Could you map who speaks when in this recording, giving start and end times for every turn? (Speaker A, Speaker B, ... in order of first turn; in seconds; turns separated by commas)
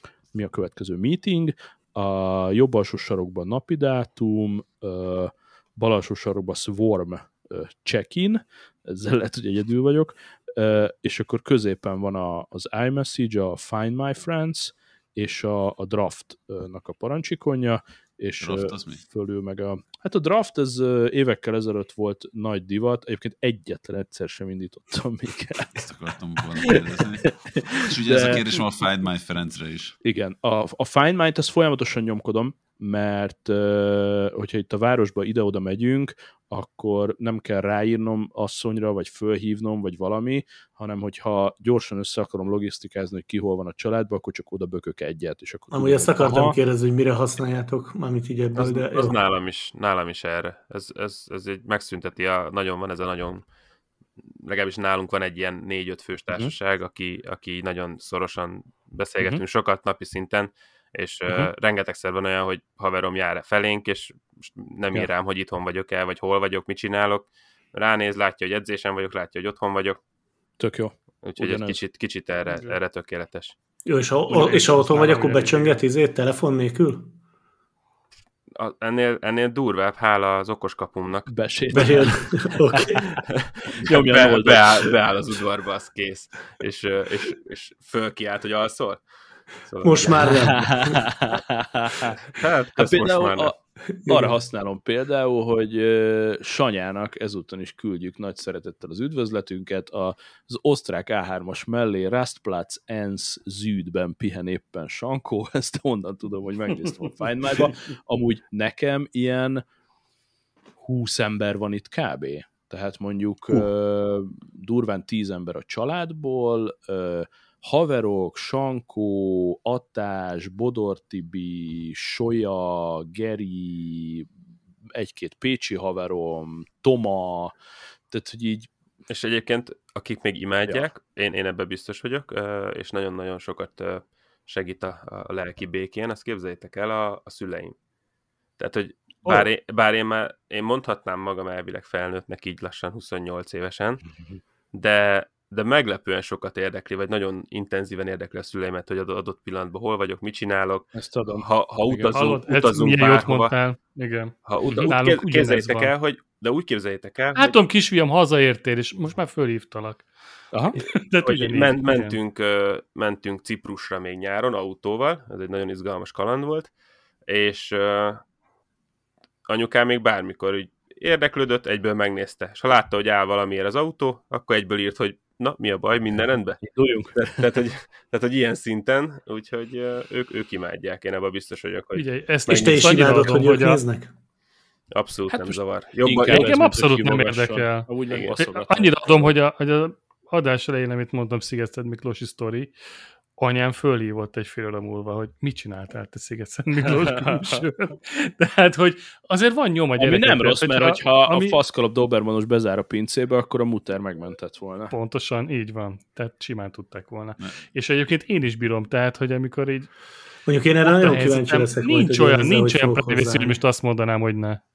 Speaker A: 0.3-25.9, Speaker B: 18.4-19.0, Speaker B: 25.8-30.0, Speaker A: 26.6-28.6, Speaker A: 30.0-46.6, Speaker C: 45.7-49.1, Speaker D: 48.5-53.4, Speaker D: 54.4-70.0, Speaker A: 70.6-71.8, Speaker D: 71.2-73.5, Speaker E: 72.5-72.7, Speaker C: 73.9-77.1, Speaker A: 74.3-75.1, Speaker E: 74.4-75.8, Speaker D: 78.5-82.1, Speaker A: 81.3-83.0, Speaker C: 81.7-83.2, Speaker D: 83.3-89.0, Speaker A: 83.7-84.9, Speaker D: 89.6-90.5, Speaker C: 89.8-91.0, Speaker A: 90.3-109.6, Speaker D: 92.3-93.5, Speaker C: 94.0-94.4, Speaker E: 107.5-107.7, Speaker A: 110.8-124.3, Speaker A: 125.0-127.5, Speaker A: 128.1-128.7, Speaker D: 129.1-137.8, Speaker D: 138.6-144.0, Speaker D: 144.7-153.6, Speaker A: 150.9-152.2, Speaker E: 152.1-155.9, Speaker D: 154.5-157.6, Speaker E: 157.4-160.1, Speaker E: 160.8-162.2, Speaker D: 161.2-166.7, Speaker D: 167.3-168.2, Speaker D: 169.5-176.6, Speaker A: 176.6-177.4, Speaker D: 177.2-183.0, Speaker E: 182.0-183.8, Speaker C: 182.5-184.1, Speaker D: 184.9-186.6, Speaker A: 185.3-189.3, Speaker E: 186.2-192.7, Speaker D: 188.1-188.4, Speaker E: 193.4-201.6, Speaker A: 196.9-197.6, Speaker A: 200.0-204.9, Speaker E: 204.9-209.9, Speaker C: 210.5-213.6, Speaker E: 210.8-214.6